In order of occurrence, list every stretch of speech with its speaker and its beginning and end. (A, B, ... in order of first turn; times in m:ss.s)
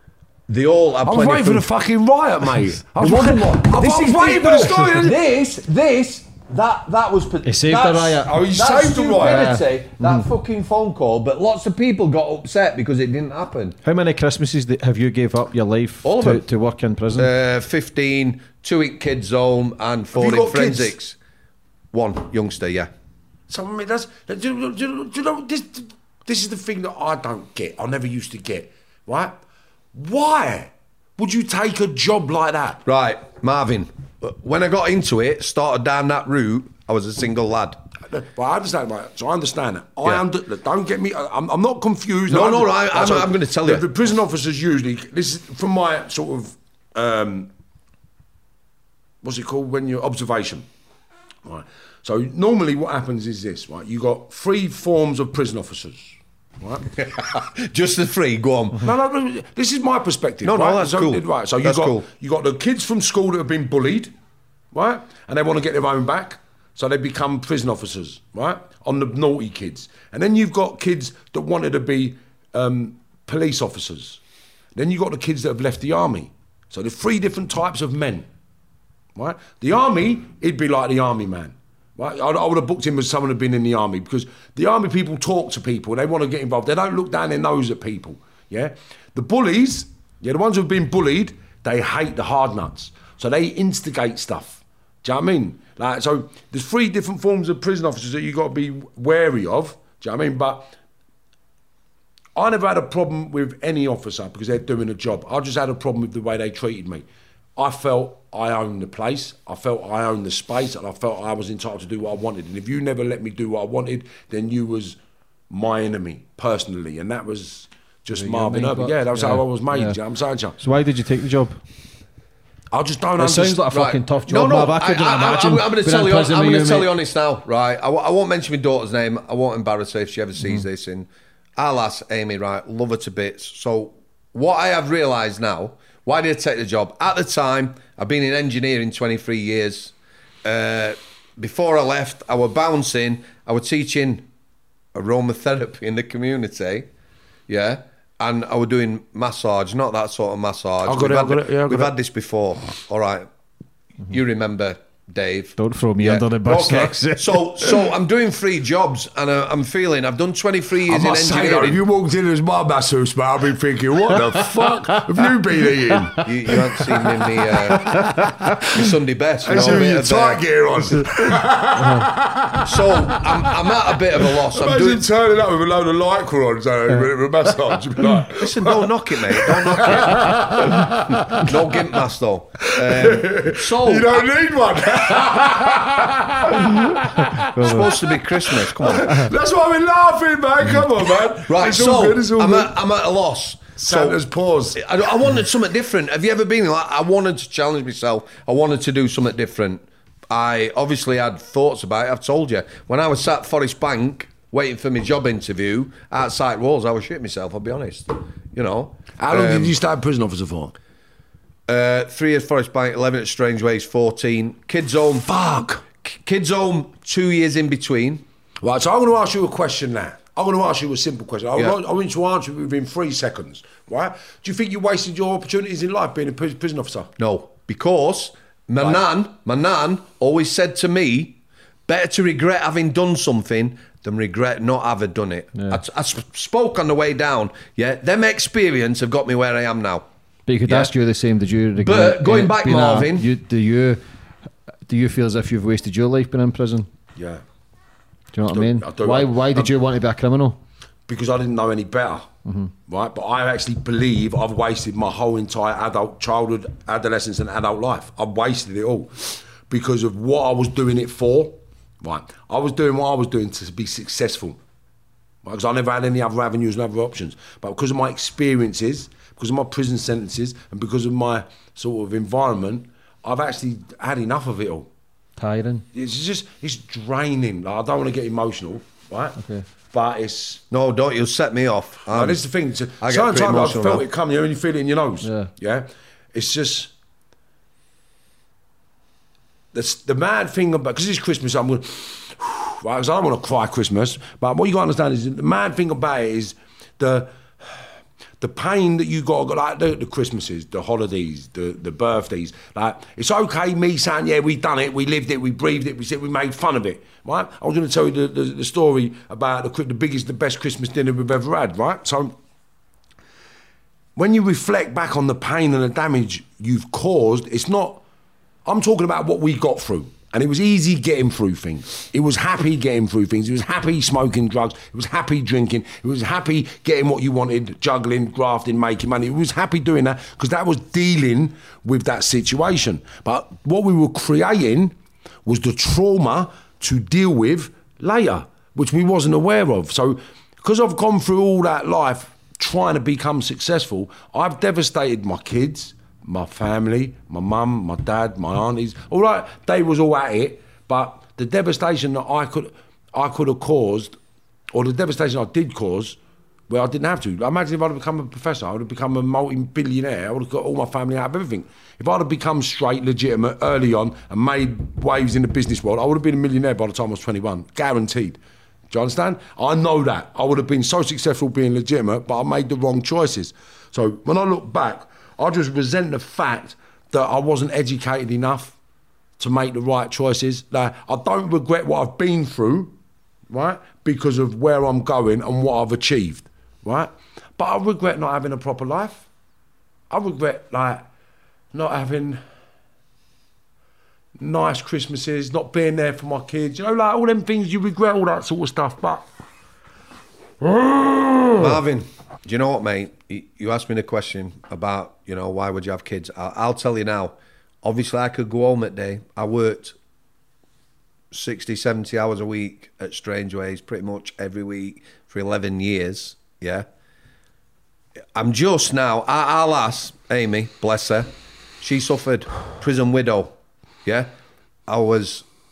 0:00.5-0:01.7 A
0:01.0-0:05.2 B
0:03.0-0:13.7 A
0:07.4-0:08.4 C
0:08.2-0:09.6 B
0:09.1-0:10.2 C
0:13.8-0:17.3 C
0:16.0-0:16.4 A
0:17.2-0:21.2 A
0:20.1-0:20.9 B
0:21.9-0:22.9 A
0:23.5-0:29.3 B
0:29.9-0:32.8 B
0:32.8-0:37.8 A
0:38.0-0:47.5 B
0:42.3-0:43.8 A
0:49.2-0:50.6 B
0:51.4-0:56.9 B
0:57.0-0:58.8 A
0:58.8-1:04.1 B
1:00.4-1:02.0 A
1:04.7-1:14.2 B
1:14.7-1:18.3 B
1:19.1-1:40.7 B
1:42.3-1:55.0 B
1:55.5-2:00.6 B
1:58.1-2:00.0 C
2:00.6-2:01.6 C
2:02.7-2:03.6 B
2:03.2-2:06.9 C
2:03.7-2:24.2 A
2:10.4-2:10.6 C
2:24.9-2:26.9 A
2:27.5-2:33.3 A
2:30.8-2:31.9 B
2:34.1-2:41.8 A
2:35.6-2:37.8 C
2:40.9-2:47.0 B
2:44.2-2:45.2 C
2:45.9-2:46.2 C
2:46.2-2:50.4 A
2:47.8-2:48.3 C
2:49.4-3:01.5 B
2:49.5-2:49.8 C
2:51.8-2:52.1 C
2:52.6-2:55.0 A
2:58.3-3:00.3 A
3:01.3-3:04.3 A
3:02.7-3:08.0 B
3:07.5-3:07.9 C
3:07.6-3:09.2 A
3:08.6-3:12.7 B
3:08.9-3:09.3 C
3:11.5-3:14.2 A
3:13.8-3:14.8 B
3:14.7-3:29.7 A
3:29.2-3:30.7 B
3:31.7-3:35.3 A
3:35.2-3:35.8 B
3:36.0-3:38.2 A
3:38.6-3:47.1 B
3:47.2-4:00.0 A
3:55.5-3:55.8 C
4:00.5-4:04.0 C
4:00.6-4:00.9 A
4:01.8-4:03.3 A
4:04.9-4:06.9 C
4:07.2-4:07.4 B
4:08.3-4:10.6 C
4:08.5-4:09.7 B
4:11.1-4:12.3 B
4:12.4-4:12.7 C
4:12.8-4:24.6 B
4:25.4-4:34.9 B
4:35.4-4:35.8 C
4:35.9-4:39.4 B
4:39.4-4:39.6 C
4:39.9-4:40.6 B
4:40.7-4:42.4 A
4:42.1-4:46.9 B
4:43.0-4:44.0 A
4:45.2-4:45.5 C
4:49.7-4:57.9 B
4:58.4-5:12.3 B
5:14.2-5:18.0 B
5:18.6-5:54.2 B
5:54.7-5:56.2 B
5:56.7-6:08.4 B
6:08.9-6:18.8 B
6:19.4-6:22.9 B
6:23.5-6:29.3 B
6:30.1-6:31.0 B
6:31.7-6:32.4 B
6:34.4-6:39.2 B
6:40.6-6:41.8 B
6:41.6-6:49.9 A
6:51.3-6:56.8 A
6:58.3-7:01.3 A
7:01.8-7:03.5 A
7:04.0-7:04.3 A
7:04.9-7:05.4 A